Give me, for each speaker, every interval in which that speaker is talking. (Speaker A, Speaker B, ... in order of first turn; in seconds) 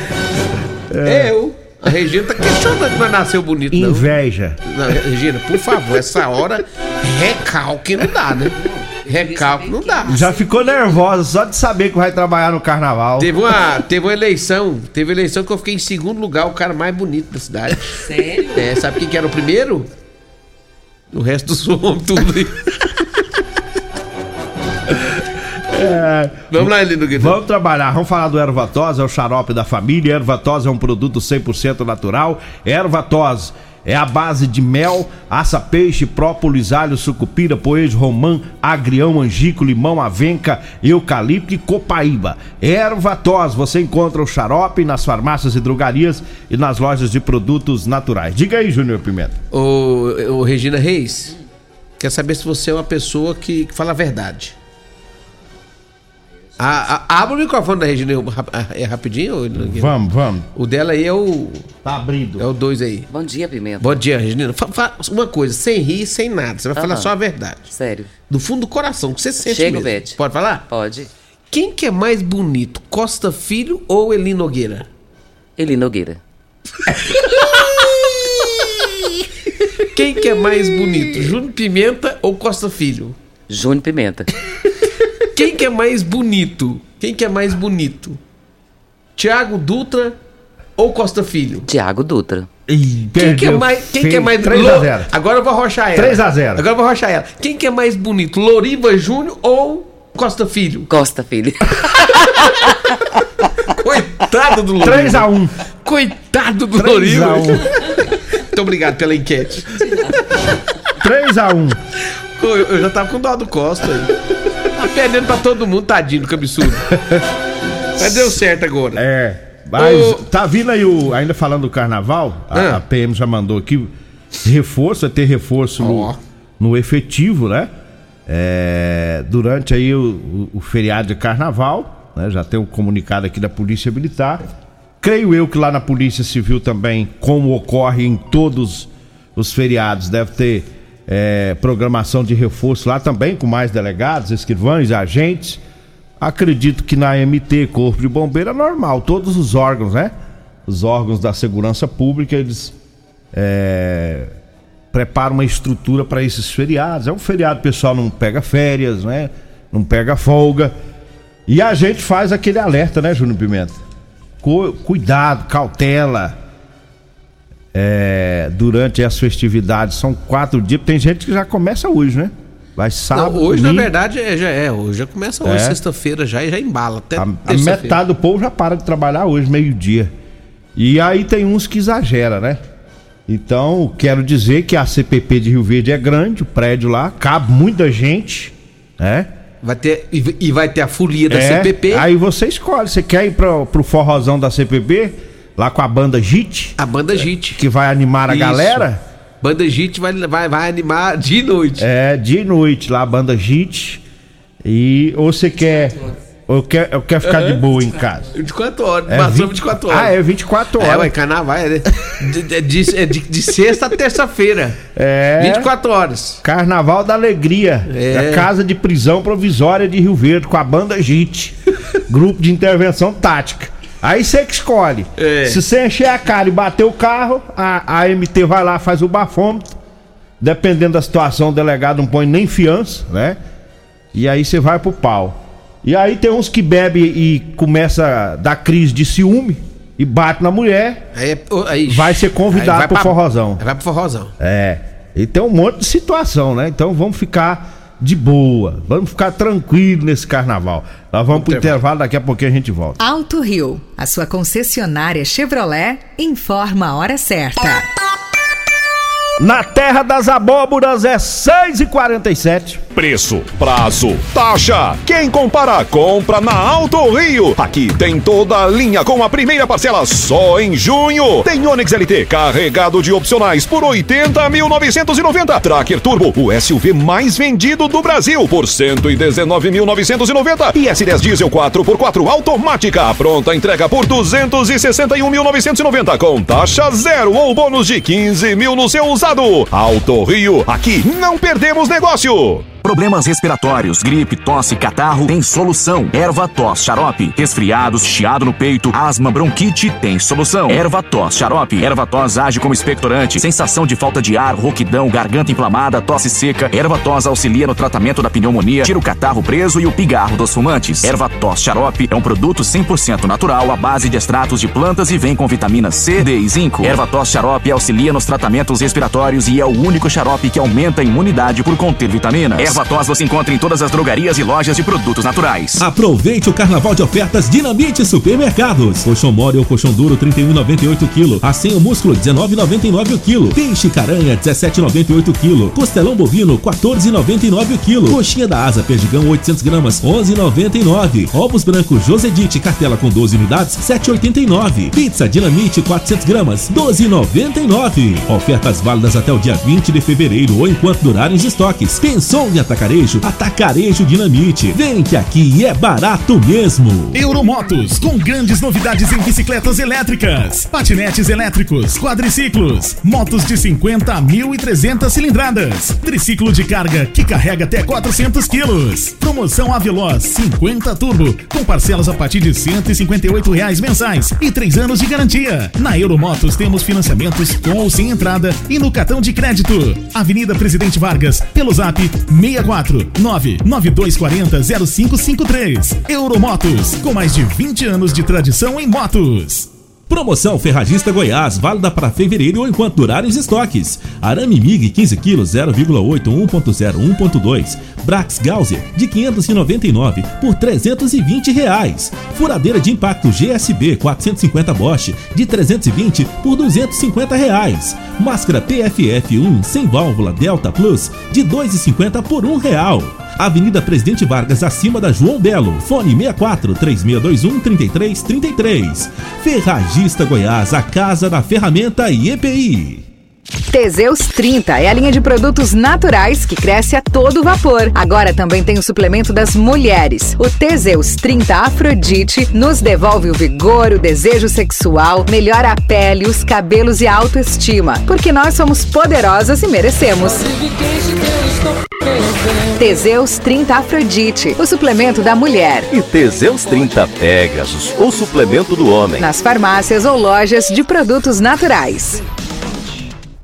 Speaker A: 0.9-1.3, 3.7-4.6, 10.1-13.3, 25.7-49.4, 59.6-60.5, 61.9-62.4, 92.7-95.1, 96.0-96.6, 104.8-105.5, 106.8-107.7, 111.0-111.8, 117.0-117.2, 119.0-123.9, 124.4-127.7, 128.3-134.4, 135.0-145.6, 146.2-150.1, 150.7-152.8, 153.3-154.3, 154.9-160.7, 161.5-163.8, 164.4-166.4, 167.7-173.9, 175.4-175.8, 177.2-180.1, 180.8-182.6, 183.3-189.3, 191.3-199.0, 201.8-204.0, 204.6-208.3, 209.1-211.1, 214.9-215.7, 216.4-221.6, 222.1-229.8, 230.4-233.4, 234.1-241.0, 241.9-243.6, 244.4-253.0, 259.4-262.8
Speaker B: 1.0-4.1, 4.7-10.3, 13.2-19.9, 21.1-22.7, 26.5-27.4, 49.5-51.4, 52.0-54.6, 56.6-60.0, 60.5-61.7, 62.4-63.1, 63.8-67.7, 68.3-70.7, 71.5-74.9, 79.9-83.2, 85.3-88.2, 89.2-90.2, 90.8-91.7, 93.2-100.9, 103.8-105.3, 105.8-107.7, 108.5-110.0, 112.4-114.1, 114.8-117.0, 118.0-119.0, 119.8-120.2, 122.5-122.8, 125.8-126.2, 173.1-178.0, 189.6-192.1, 196.8-197.6, 198.3-198.9, 199.4-201.9, 207.2-207.6, 208.3-210.2, 210.8-214.8, 215.4-216.4, 217.9-218.5, 225.2-225.6, 241.1-244.3, 251.3-251.8
Speaker C: 9.3-9.9, 63.1-64.0, 66.8-67.1, 67.7-68.1, 69.5-70.2, 70.7-71.1, 75.6-76.2, 83.5-84.3, 91.7-92.5, 100.9-102.0
Speaker D: 253.0-257.9, 423.7-440.7, 442.7-445.9, 449.2-452.2
Speaker E: 262.9-292.7
Speaker F: 292.8-325.8
Speaker G: 325.8-357.2, 390.1-423.1
Speaker H: 357.1-389.7
Speaker I: 445.9-449.2